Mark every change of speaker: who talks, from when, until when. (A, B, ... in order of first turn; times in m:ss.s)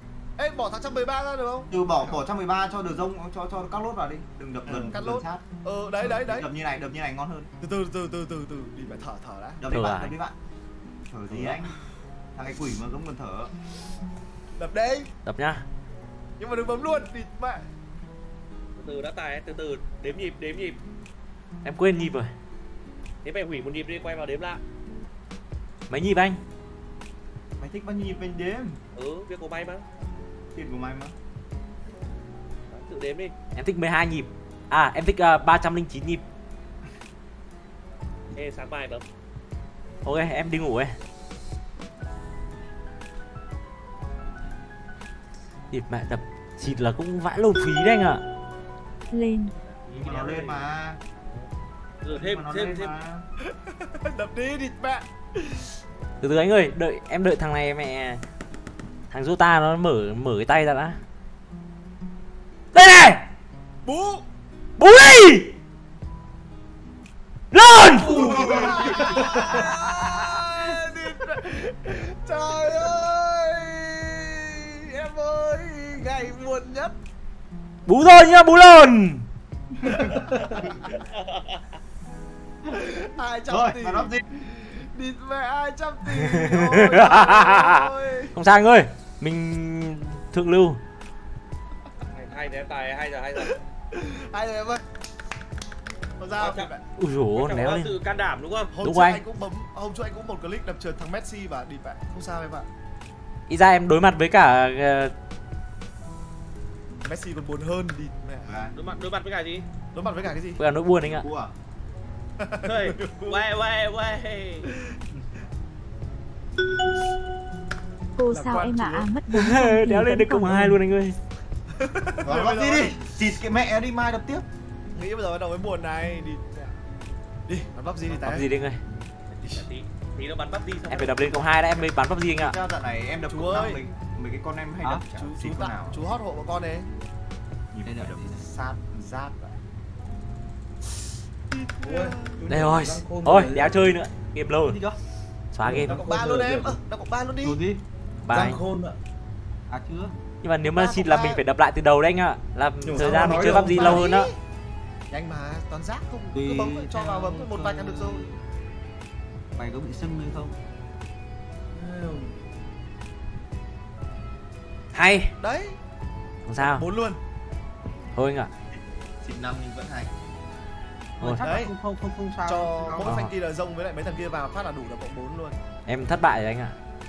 0:00.4-0:01.7 A
0:01.7-0:05.4 B
0:04.7-0:04.9 C
0:04.9-0:06.5 A
0:06.0-0:07.5 B
0:07.6-0:09.6 A
0:09.6-0:10.4 B
0:09.7-0:10.1 D
0:11.1-0:11.7 B
0:12.3-0:13.5 B
0:14.6-0:15.1 A
0:15.2-0:15.6 D
0:16.4-0:17.6 A
0:18.8-0:20.8 E
0:21.6-0:22.3 D
0:23.2-0:24.6 E
0:25.9-0:26.4 D
0:27.6-0:28.8 B
0:28.9-0:29.8 E
0:30.5-0:31.1 B
0:32.7-0:33.3 E
0:33.6-0:36.2 D
0:38.3-0:39.0 E
0:40.0-0:41.0 D
0:45.7-0:48.2 D
0:49.1-0:49.5 F
0:49.6-0:50.6 E
0:49.9-0:51.0 B
0:52.0-0:52.9 E
0:52.1-0:53.2 B
0:53.4-0:55.8 A
0:56.2-0:58.2 D
0:59.1-1:01.0 D
1:02.7-1:03.2 D
1:03.8-1:04.2 A
1:04.8-1:05.5 D
1:07.5-1:08.4 D
1:07.9-1:16.9 A
1:08.4-1:08.8 B
1:17.8-1:19.2 D
1:19.8-1:20.6 B
1:20.4-1:20.7 A
1:21.1-1:21.6 E
1:22.7-1:28.3 A
1:23.5-1:24.2 B
1:26.2-1:30.8 D
1:32.1-1:33.6 E
1:33.4-1:34.8 A
1:36.2-1:36.8 A
1:36.4-1:36.7 E
1:37.0-1:37.9 D
1:37.3-1:38.7 E
1:38.7-1:42.7 A
1:38.8-1:39.2 D
1:43.5-1:45.1 D
1:47.0-1:48.6 A
1:48.4-1:48.7 B
1:48.7-1:49.6 E
1:49.9-1:50.6 A
1:50.6-1:51.2 D
1:51.0-1:51.5 B
1:52.4-1:53.4 A
1:52.6-1:54.7 E
1:54.6-1:54.9 A
1:58.2-2:00.8 F
1:58.3-1:59.1 A
1:59.3-2:01.2 D
2:01.8-2:03.1 A
2:02.2-2:04.4 B
2:04.9-2:06.7 A
2:07.5-2:08.5 A
2:08.2-2:08.8 D
2:09.3-2:11.3 E
2:10.9-2:12.5 D
2:12.3-2:16.1 B
2:13.3-2:13.8 A
2:15.1-2:16.9 A
2:17.7-2:19.6 B
2:17.8-2:18.4 C
2:21.5-2:22.4 A
2:21.8-2:24.0 C
2:22.5-2:24.8 D
2:24.6-2:25.0 C
2:25.5-2:26.0 D
2:25.6-2:26.8 C
2:25.8-2:27.6 A
2:27.4-2:29.0 C
2:28.2-2:28.6 D
2:29.7-2:30.1 C
2:30.4-2:34.3 D
2:30.6-2:31.4 B
2:32.8-2:34.1 C
2:33.2-2:34.4 A
2:35.1-2:38.2 A
2:36.3-2:38.4 C
2:39.6-2:40.5 C
2:41.7-2:42.3 C
2:44.9-2:45.3 D
2:45.4-2:45.8 A
2:46.4-2:46.8 D
2:46.6-2:47.2 A
2:48.1-2:48.5 D
2:48.7-2:50.1 B
2:51.2-2:53.0 C
2:51.4-2:51.7 A
2:52.4-2:55.6 A
2:53.0-2:53.3 D
2:55.8-2:56.8 D